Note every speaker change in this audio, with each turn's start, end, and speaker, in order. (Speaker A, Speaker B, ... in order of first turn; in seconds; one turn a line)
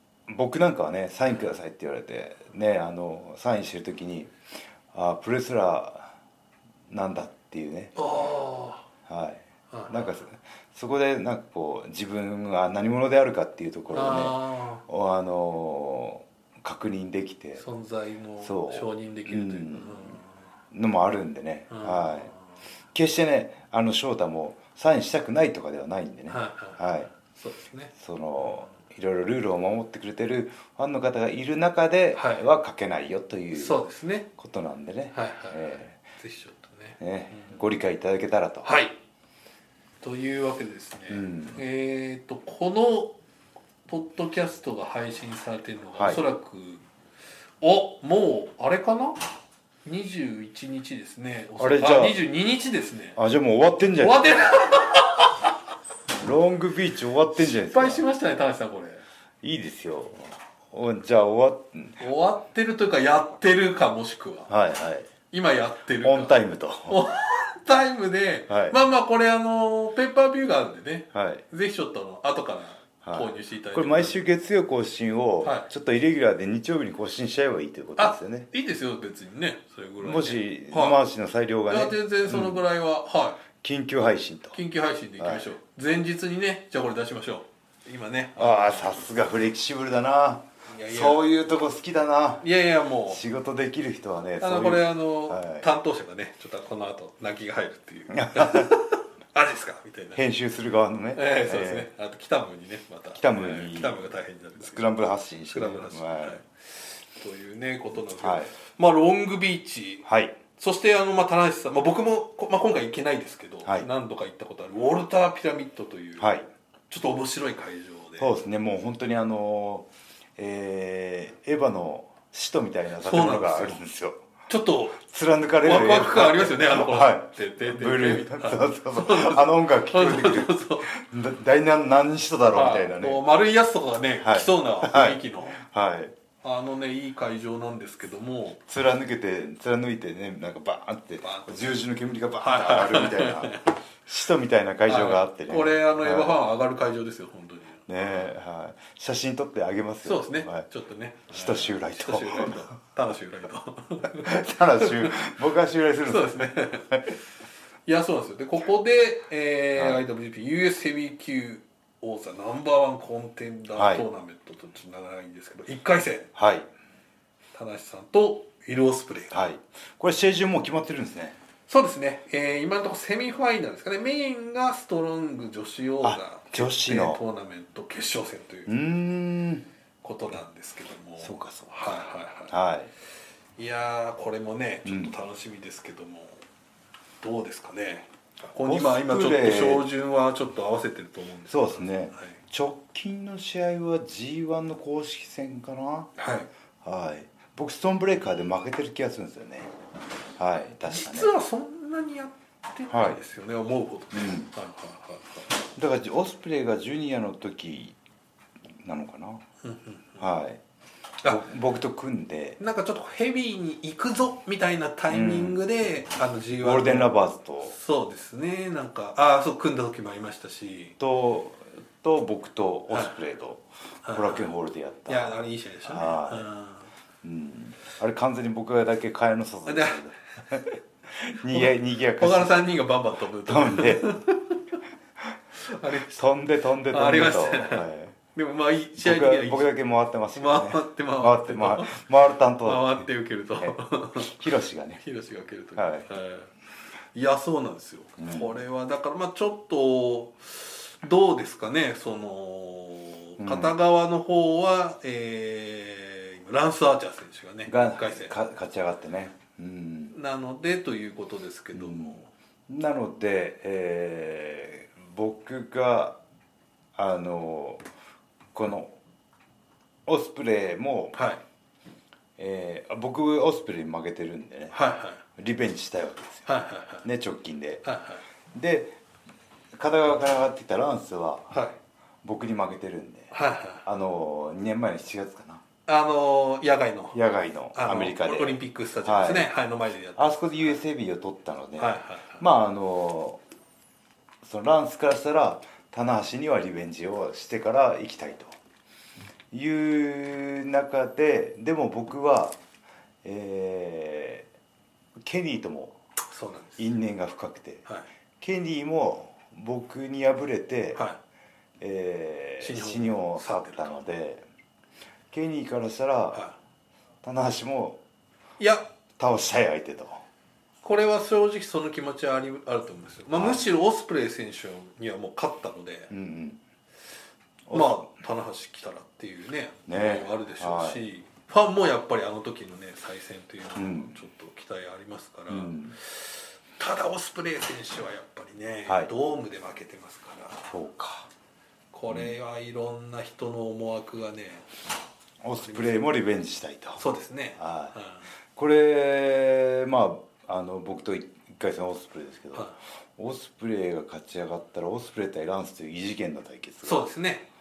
Speaker A: 0.3-4.3
Speaker A: 4.9-6.2
Speaker A: 6.9-7.9
Speaker B: 8.0-8.8
Speaker A: 9.1-17.6
Speaker B: 9.7-10.2
Speaker B: 13.9-14.8
Speaker B: 17.6-20.4
Speaker A: 18.4-20.2
Speaker A: 20.7-22.3
Speaker B: 21.7-22.4
Speaker A: 22.9-27.1
Speaker B: 26.3-28.8
Speaker A: 28.0-33.8
Speaker B: 32.1-32.4
Speaker B: 33.5-34.3
Speaker A: 34.4-36.0
Speaker B: 35.1-37.6
Speaker A: 37.0-38.7
Speaker B: 38.6-38.9
Speaker B: 40.0-43.2
Speaker A: 41.1-41.6
Speaker B: 43.9-46.8
Speaker A: 46.0-46.2
Speaker B: 47.6-49.2
Speaker B: 49.9-53.2
Speaker A: 51.6-52.2
Speaker A: 53.2-54.3
Speaker B: 54.0-55.4
Speaker A: 56.2-58.1
Speaker B: 57.3-59.0
Speaker A: 59.4-62.0
Speaker B: 62.0-64.5
Speaker A: 64.5-65.1
Speaker B: 65.3-74.2
Speaker A: 66.0-67.0
Speaker A: 68.5-68.8
Speaker A: 71.1-71.4
Speaker A: 73.0-78.5
Speaker B: 75.4-75.7
Speaker B: 78.0-81.0
Speaker A: 80.0-82.7
Speaker B: 81.7-83.4
Speaker A: 83.6-84.6
Speaker B: 84.5-89.0
Speaker A: 85.2-85.5
Speaker A: 88.4-92.5
Speaker B: 90.7-91.2
Speaker B: 92.4-93.2
Speaker A: 93.1-95.7
Speaker B: 94.4-100.2
Speaker A: 98.1-98.8
Speaker A: 100.2-101.9
Speaker B: 101.2-104.9
Speaker A: 103.1-106.4
Speaker B: 105.5-110.1
Speaker A: 108.2-108.5
Speaker A: 110.0-110.4
Speaker B: 110.6-116.3
Speaker A: 116.2-116.5
Speaker B: 116.9-118.3
Speaker A: 118.2-124.2
Speaker B: 123.0-123.8
Speaker B: 124.5-125.0
Speaker A: 125.0-133.2
Speaker B: 125.6-130.9
Speaker B: 132.5-135.6
Speaker A: 134.2-136.1
Speaker B: 136.4-138.6
Speaker A: 138.7-146.4
Speaker B: 141.2-141.8
Speaker B: 142.4-143.7
Speaker B: 144.9-148.3
Speaker A: 147.9-150.7
Speaker B: 150.0-155.2
Speaker A: 151.3-152.7
Speaker A: 154.1-157.1
Speaker B: 156.1-157.2
Speaker B: 157.9-166.3
Speaker A: 159.8-160.0
Speaker A: 163.7-164.1
Speaker A: 166.3-166.7
Speaker B: 167.5-169.4
Speaker A: 169.3-171.4
Speaker B: 171.7-178.7
Speaker A: 176.0-177.2
Speaker A: 178.7-179.7
Speaker B: 180.0-182.6
Speaker A: 181.2-181.9
Speaker A: 182.5-182.9
Speaker B: 183.6-186.4
Speaker A: 184.9-185.2
Speaker B: 187.2-192.4
Speaker A: 188.6-189.9
Speaker A: 191.5-196.1
Speaker B: 196.2-196.5
Speaker A: 196.8-199.7
Speaker A: 200.4-201.3
Speaker B: 200.9-205.6
Speaker A: 202.9-203.2
Speaker A: 204.1-204.5
Speaker A: 205.8-207.9
Speaker A: 208.8-209.4
Speaker B: 209.6-210.3
Speaker A: 210.2-210.6
Speaker A: 211.2-212.6
Speaker B: 212.6-217.1
Speaker A: 215.1-215.6
Speaker A: 216.6-217.8
Speaker B: 217.7-221.0
Speaker A: 221.0-226.5
Speaker B: 222.9-223.2
Speaker B: 224.1-224.5
Speaker B: 225.1-226.9
Speaker A: 227.2-232.7
Speaker B: 229.7-230.0
Speaker B: 231.5-234.6
Speaker A: 233.4-234.1
Speaker B: 235.6-236.3
Speaker A: 236.0-238.2
Speaker B: 236.9-239.7
Speaker A: 239.0-243.1
Speaker B: 240.3-242.0
Speaker B: 242.6-244.4
Speaker A: 243.6-245.0
Speaker B: 245.0-246.5
Speaker A: 245.8-246.1
Speaker B: 247.1-258.4
Speaker A: 248.2-248.6
Speaker A: 253.4-253.8
Speaker A: 257.7-260.1
Speaker B: 260.1-262.3
Speaker A: 261.7-266.2
Speaker A: 266.9-267.8
Speaker A: 268.5-269.0
Speaker A: 270.1-271.2
Speaker B: 271.1-271.4
Speaker A: 272.4-274.8
Speaker B: 274.7-275.2
Speaker A: 275.4-276.4
Speaker B: 276.4-277.1
Speaker A: 277.0-277.9
Speaker B: 277.8-278.2
Speaker A: 278.5-279.0
Speaker A: 279.8-281.5
Speaker B: 281.5-281.8
Speaker A: 282.2-283.3
Speaker B: 283.3-283.8
Speaker A: 283.8-285.6
Speaker B: 285.9-287.2
Speaker A: 287.1-289.5
Speaker B: 287.7-290.8
Speaker A: 290.2-293.4
Speaker B: 291.8-292.4
Speaker A: 294.4-298.6
Speaker A: 299.5-302.6
Speaker A: 303.2-304.5
Speaker A: 305.2-305.9
Speaker B: 306.3-306.8
Speaker A: 306.8-307.9
Speaker A: 308.4-311.0
Speaker A: 311.8-314.4
Speaker B: 312.6-314.0
Speaker A: 315.3-316.4
Speaker A: 317.2-318.0
Speaker B: 318.6-318.9
Speaker A: 319.2-320.2
Speaker B: 320.8-326.1
Speaker A: 323.3-323.6
Speaker A: 326.1-326.6
Speaker A: 327.7-328.1
Speaker B: 327.7-340.7
Speaker A: 329.9-331.0
Speaker A: 333.8-334.2
Speaker A: 335.5-335.9
Speaker A: 340.7-341.3
Speaker B: 341.9-344.7
Speaker A: 345.4-347.0
Speaker B: 345.6-346.1
Speaker B: 347.0-348.3
Speaker A: 347.6-347.9
Speaker A: 348.6-357.1
Speaker B: 356.8-357.5